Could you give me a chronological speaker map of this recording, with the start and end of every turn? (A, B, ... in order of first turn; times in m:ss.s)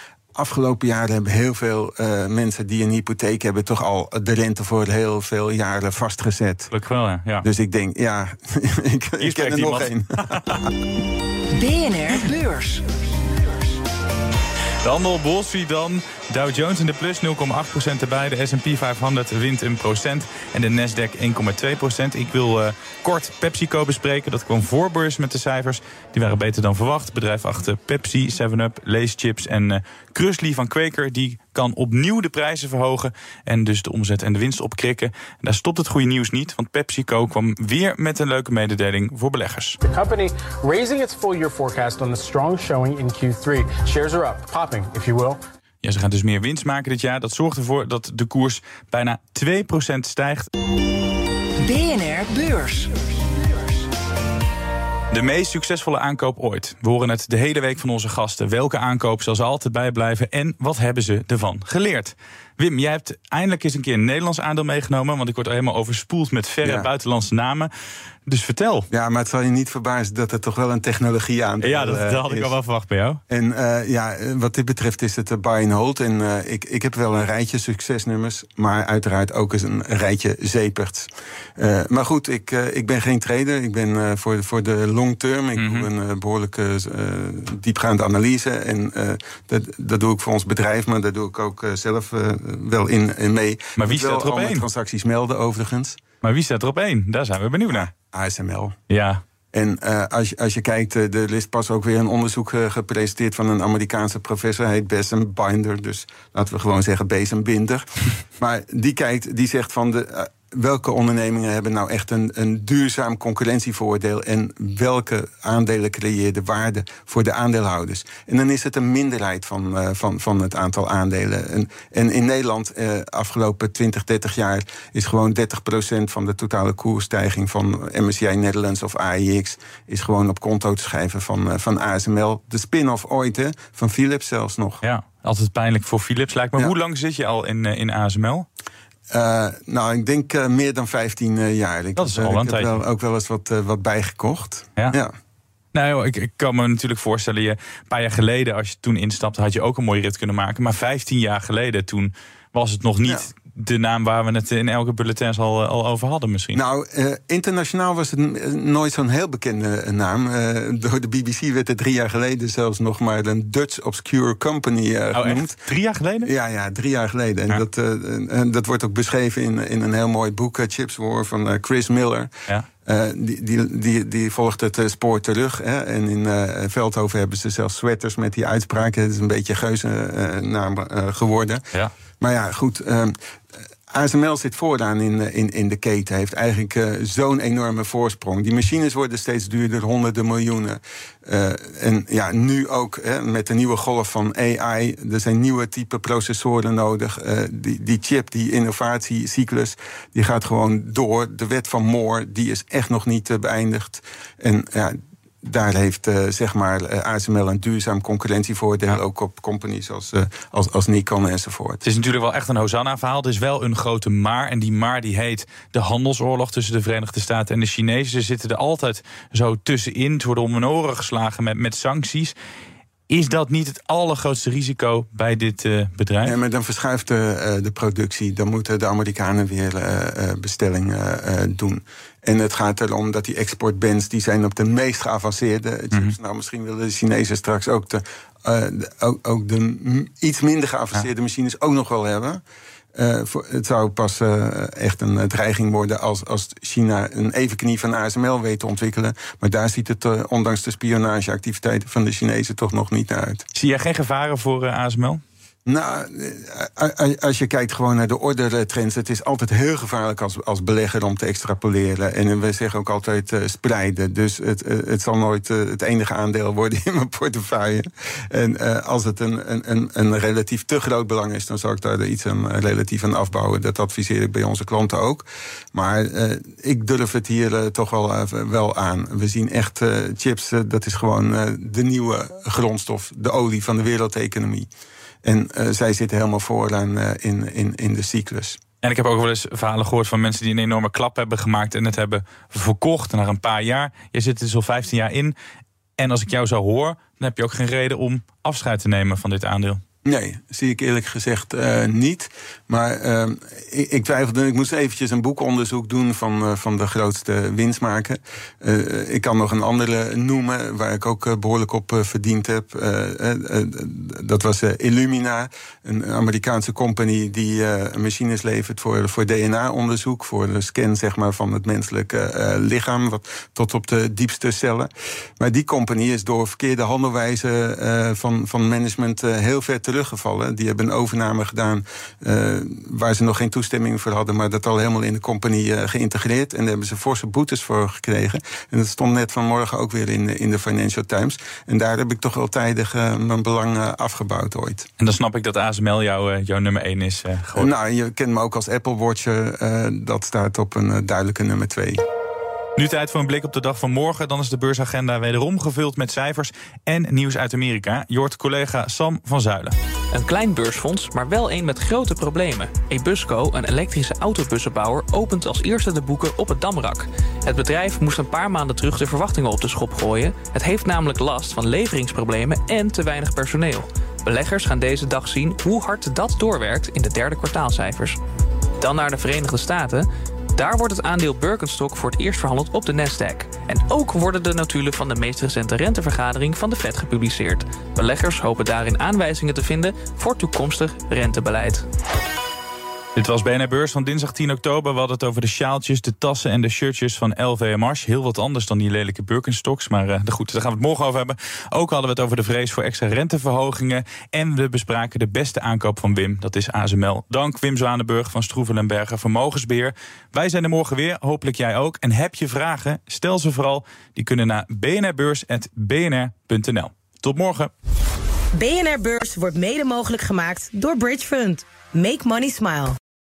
0:00.4-0:06.7 A
0:06.7-0:07.5 B
0:07.4-0:10.7 A
0:09.2-0:10.6 B
0:11.6-0:12.8 C
0:14.8-0:39.8 B
0:39.8-0:45.4 D
0:45.8-0:50.5 B
0:51.6-0:53.9 C
0:55.1-1:07.7 B
1:06.6-1:06.9 A
1:08.3-1:08.9 B
1:08.9-1:12.5 A
1:11.6-1:13.2 B
1:13.3-1:36.0 A
1:25.6-1:25.9 B
1:33.8-1:34.7 B
1:36.2-1:37.9 B
1:37.7-1:38.8 A
1:38.9-1:39.2 B
1:39.5-1:47.9 A
1:48.4-2:14.8 A
2:14.8-2:18.5 B
2:19.1-2:25.1 A
2:22.0-2:22.8 B
2:25.7-2:36.6 B
2:33.0-2:33.3 A
2:36.5-2:45.6 A
2:45.1-2:46.3 B
2:46.2-2:52.3 A
2:52.8-3:01.6 A
3:02.2-3:03.2 A
3:03.9-3:31.8 A
3:31.8-3:42.3 B
3:43.1-3:46.4 B
3:46.2-4:02.4 A
4:02.9-4:13.4 A
4:13.5-4:15.2 B
4:15.7-4:44.7 A
4:45.2-4:48.6 A
4:48.8-4:55.3 B
4:56.0-4:59.8 B
5:00.0-5:44.9 A
5:45.0-5:47.7 B
5:47.6-5:52.0 A
5:52.8-5:59.8 B
6:00.1-6:18.2 E
6:18.8-6:31.8 E
6:33.2-6:57.7 B
6:58.6-7:03.0 F